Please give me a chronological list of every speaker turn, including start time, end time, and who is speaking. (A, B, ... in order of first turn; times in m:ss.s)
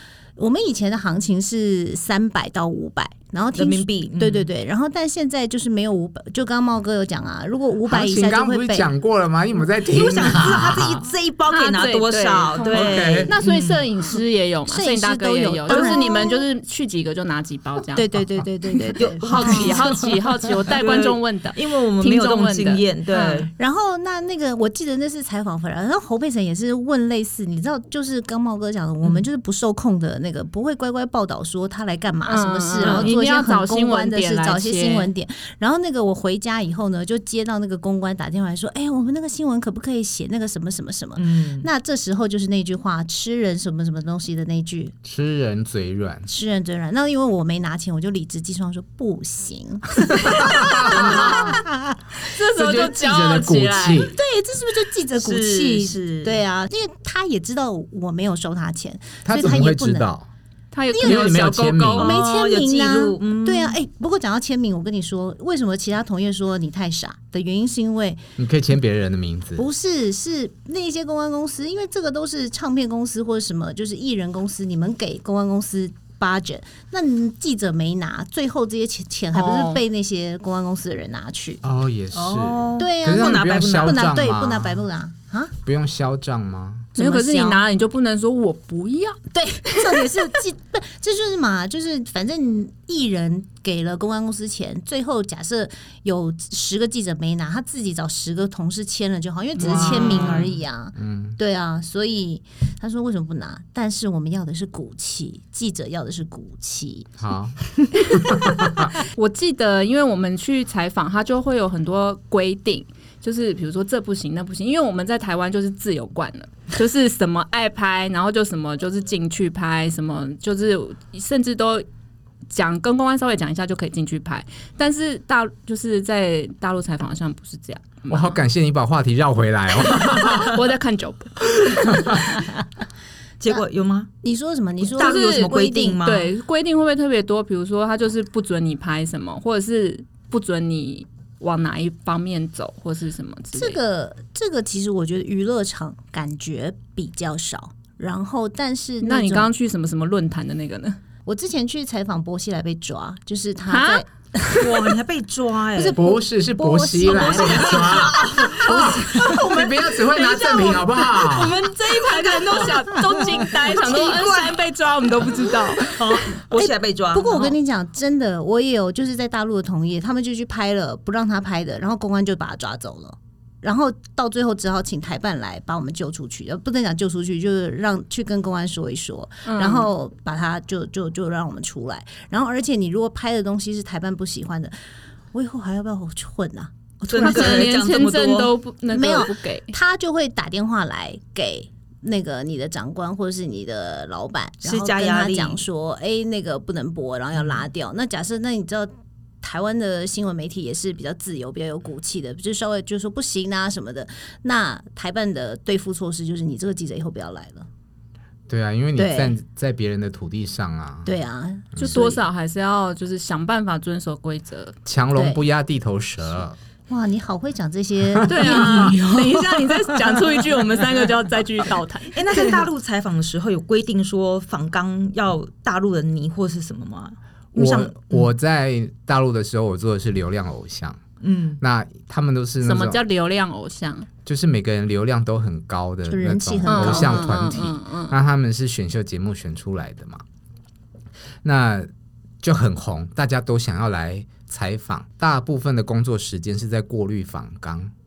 0:00.4-0:08.9 A
0:03.5-0:04.5 B
0:07.8-0:11.1 C
0:09.8-0:13.8 B
0:11.5-0:18.1 D
0:12.7-0:13.3 C
0:14.7-0:16.4 A
0:15.7-0:16.0 B
0:17.9-0:20.1 A
0:19.0-0:20.1 B
0:19.2-0:23.4 D
0:20.7-0:23.5 B
0:23.6-0:45.0 A
0:32.2-0:35.1 D
0:32.8-0:33.1 B
0:41.2-0:41.7 B
0:45.0-0:46.3 C
0:46.3-0:52.0 A
0:50.1-0:51.6 C
0:50.3-0:51.5 D
0:52.2-0:54.1 D
0:52.5-0:54.2 C
0:54.0-1:00.1 A
0:55.2-0:56.4 B
0:59.2-1:00.3 C
1:00.7-1:02.1 D
1:00.9-1:01.3 A
1:01.0-1:02.2 C
1:02.0-1:03.8 B
1:02.0-1:08.2 A
1:08.4-1:09.7 C
1:09.6-1:21.6 A
1:19.3-1:19.8 D
1:21.6-1:24.8 C
1:22.1-1:24.1 B
1:22.8-1:25.5 A
1:25.6-1:26.9 C
1:26.9-1:27.6 A
1:27.0-1:30.0 D
1:29.3-1:47.1 A
1:39.6-1:40.6 B
1:39.6-1:41.4 C
1:47.2-1:48.9 C
1:49.0-2:01.8 D
2:02.5-2:08.4 D
2:08.1-2:10.6 C
2:10.3-2:11.3 D
2:11.5-2:12.2 C
2:13.4-2:14.1 B
2:14.2-2:16.0 A
2:14.8-2:16.3 B
2:15.0-2:23.8 D
2:23.5-2:29.5 A
2:29.0-2:31.0 D
2:31.2-2:34.1 A
2:33.7-2:34.6 D
2:34.6-2:36.0 B
2:35.8-2:38.2 A
2:36.0-2:41.6 C
2:37.0-2:39.4 B
2:38.6-2:46.2 D
2:41.6-2:44.6 B
2:45.8-2:47.6 B
2:46.5-3:04.7 A
2:59.4-2:59.9 D
3:05.3-3:07.7 A
3:07.0-3:08.5 B
3:07.1-3:09.7 D
3:08.9-3:27.7 A
3:14.6-3:15.6 B
3:17.3-3:17.6 B
3:28.5-3:31.1 C
3:29.0-3:29.3 A
3:31.0-3:32.2 A
3:31.8-3:34.7 D
3:34.8-3:36.6 C
3:35.1-3:35.4 A
3:36.9-3:40.1 A
3:38.0-3:38.9 C
3:38.3-3:42.2 D
3:42.1-3:48.3 B
3:47.5-3:51.0 C
3:51.2-3:51.6 B
3:51.6-3:53.0 C
3:52.6-3:54.1 D
3:54.2-4:00.2 C
3:56.1-3:57.4 A
3:56.6-3:58.1 D
4:01.4-4:01.9 C
4:02.4-4:07.9 C